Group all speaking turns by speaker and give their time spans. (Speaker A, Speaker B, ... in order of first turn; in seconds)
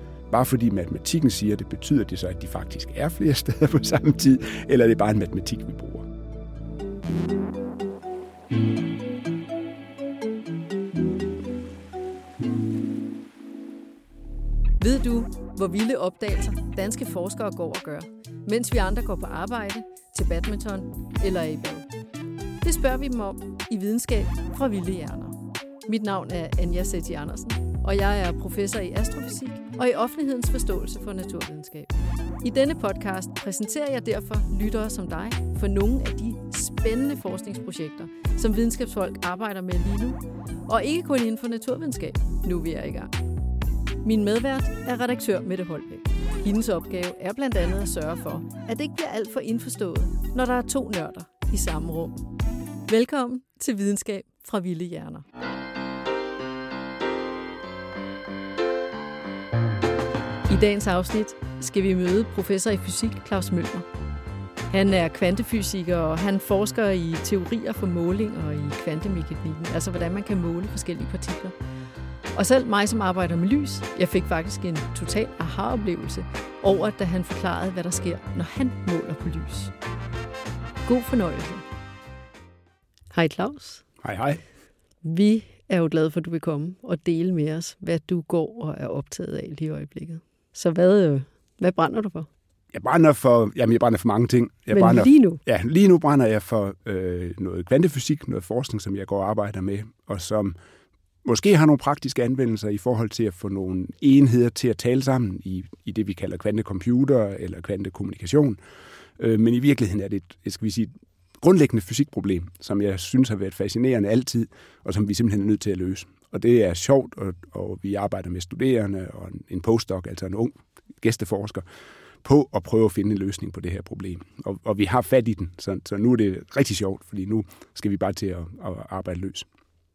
Speaker A: 0.3-6.1, 84.0-84.4, 92.7-100.6, 101.2-108.6, 109.2-121.7, 122.2-129.5
Speaker B: 14.8-21.9, 22.6-43.1, 44.0-52.2, 52.9-55.2, 60.5-63.9, 64.7-71.5, 72.3-79.7, 80.9-81.6, 83.1-83.8, 85.0-92.3, 94.7-95.4